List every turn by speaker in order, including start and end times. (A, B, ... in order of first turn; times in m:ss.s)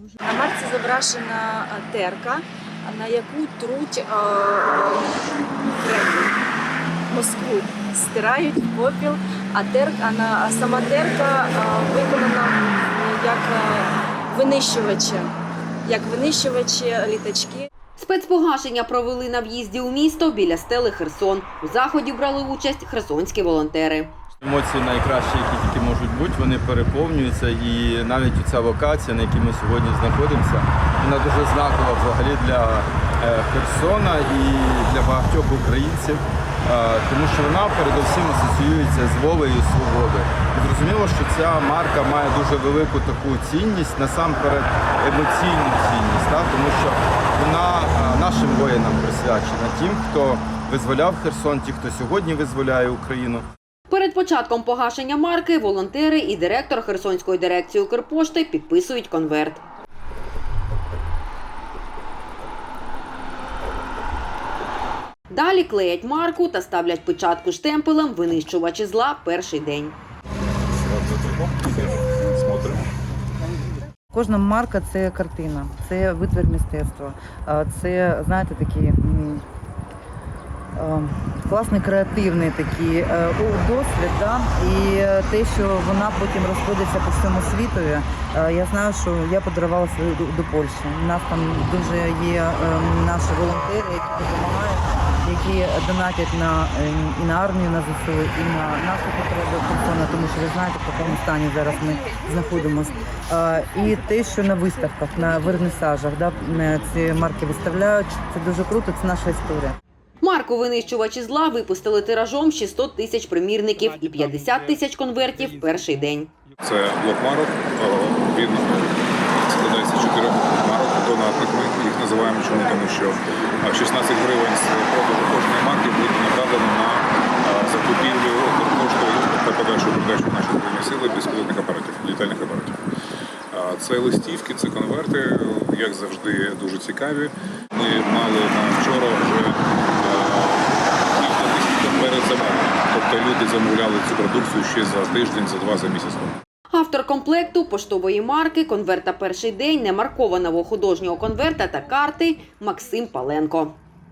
0:00.2-0:05.1 A
0:05.7-0:06.4 A
0:07.1-0:15.3 A
0:15.8-0:17.7 A
0:18.0-0:24.1 B
0:24.4-0:53.4 C
0:53.9-0:59.6 B
1:05.3-1:10.0 B
1:10.8-1:12.9 D
1:14.1-1:19.4 E
1:20.8-1:49.8 E
1:50.2-1:56.3 B
1:56.6-2:12.8 D
2:13.5-2:26.4 D
2:26.7-2:33.8 B